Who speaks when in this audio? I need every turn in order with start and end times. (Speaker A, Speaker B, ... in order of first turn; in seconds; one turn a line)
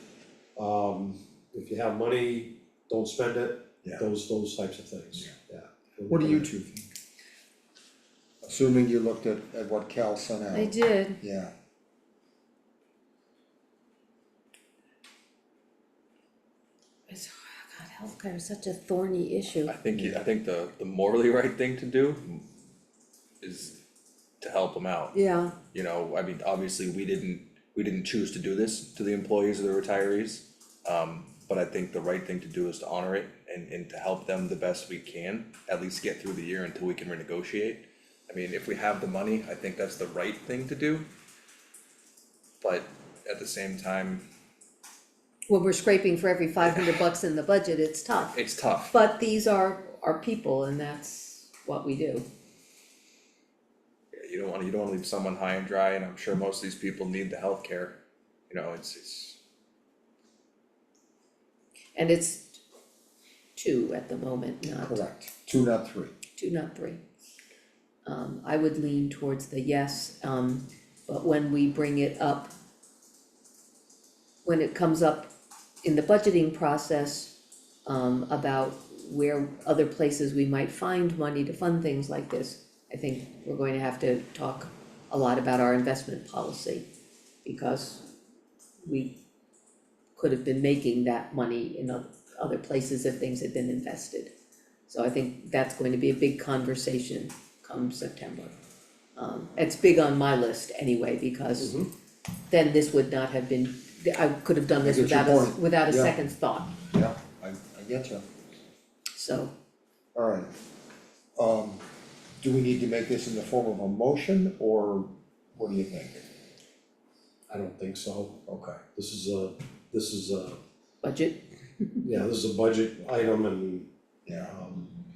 Speaker A: 0.6-6.5
Speaker B: 6.1-6.9
Speaker B: 8.4-11.5
Speaker C: 10.5-11.2
Speaker C: 17.1-19.7
Speaker D: 19.7-22.4
Speaker D: 23.4-23.8
Speaker D: 24.4-41.1
Speaker C: 25.1-25.6
Speaker D: 42.6-44.3
Speaker C: 45.5-48.4
Speaker D: 46.6-47.1
Speaker D: 48.1-49.0
Speaker C: 48.9-52.3
Speaker D: 54.1-58.0
Speaker D: 58.5-59.4
Speaker C: 62.0-62.6
Speaker C: 63.6-65.0
Speaker B: 64.8-66.1
Speaker C: 66.4-67.0
Speaker C: 68.0-72.5
Speaker C: 74.5-75.3
Speaker C: 75.8-77.3
Speaker C: 77.9-86.9
Speaker C: 87.5-88.0
Speaker C: 88.8-89.2
Speaker C: 90.2-94.3
Speaker C: 94.9-98.5
Speaker C: 99.2-101.8
Speaker A: 101.6-101.9
Speaker C: 102.5-106.8
Speaker B: 104.8-106.2
Speaker B: 106.9-108.2
Speaker C: 109.1-109.5
Speaker B: 110.2-110.5
Speaker B: 111.4-111.8
Speaker B: 112.4-116.2
Speaker A: 117.5-120.6
Speaker B: 118.5-118.8
Speaker C: 121.0-122.0
Speaker A: 122.0-123.9
Speaker B: 124.3-124.5
Speaker A: 124.5-125.0